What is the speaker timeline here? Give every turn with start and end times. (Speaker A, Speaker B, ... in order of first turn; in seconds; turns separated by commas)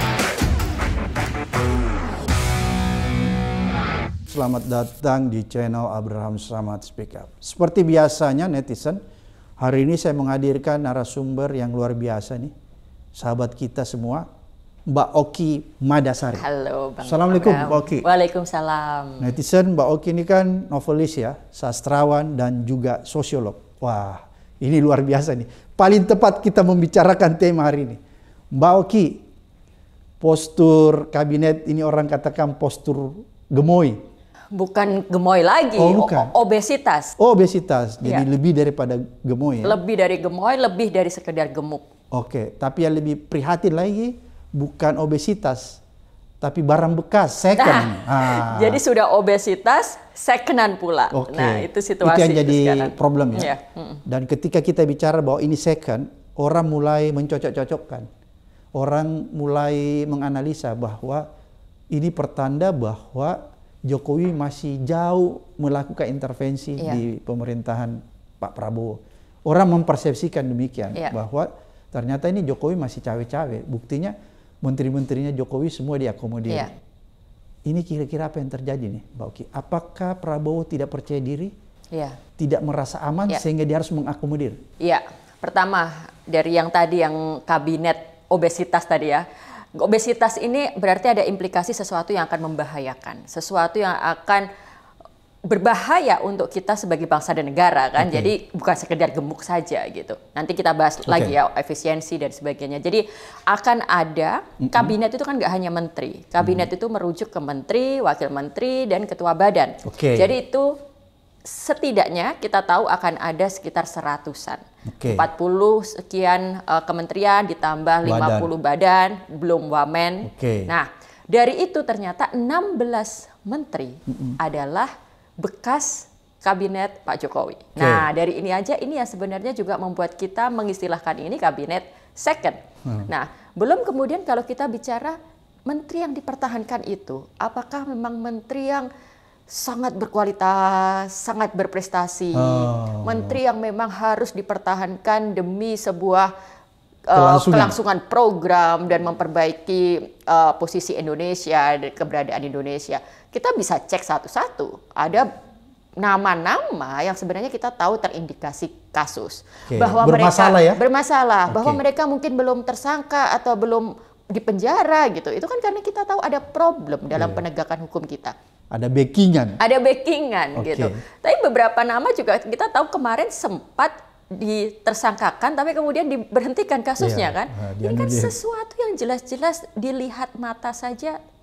Speaker A: 4.3-9.0, Speaker A: 9.6-12.5, Speaker A: 13.2-14.3, Speaker A: 14.9-16.4, Speaker B: 16.4-19.4, Speaker A: 17.0-18.1, Speaker A: 19.2-28.0, Speaker A: 28.5-29.2, Speaker A: 30.2-34.0, Speaker B: 34.5-37.2, Speaker A: 35.8-36.3, Speaker A: 37.2-39.8, Speaker B: 39.6-41.8, Speaker A: 42.1-45.8, Speaker A: 46.4-48.8, Speaker B: 47.6-54.0, Speaker A: 51.1-53.5, Speaker A: 54.0-58.1, Speaker A: 58.8-61.3, Speaker A: 61.9-76.7, Speaker B: 76.5-76.7, Speaker A: 77.7-81.5, Speaker B: 81.9-82.2, Speaker A: 82.4-84.6, Speaker B: 84.8-94.5, Speaker B: 95.4-110.8, Speaker A: 98.0-98.3, Speaker A: 101.1-101.3, Speaker A: 104.6-104.9, Speaker A: 106.4-106.7, Speaker A: 109.8-110.3, Speaker B: 111.4-138.9, Speaker A: 114.9-115.2, Speaker A: 118.0-118.5, Speaker A: 120.2-120.7, Speaker A: 124.1-124.4, Speaker A: 127.8-128.1, Speaker B: 139.5-146.3, Speaker A: 142.3-143.4, Speaker B: 147.1-155.3, Speaker A: 147.1-147.8, Speaker B: 156.0-168.3, Speaker A: 159.7-160.8, Speaker A: 161.5-161.8, Speaker A: 167.2-167.4, Speaker A: 168.7-169.6, Speaker B: 169.6-181.2, Speaker A: 170.6-171.0, Speaker A: 177.0-178.3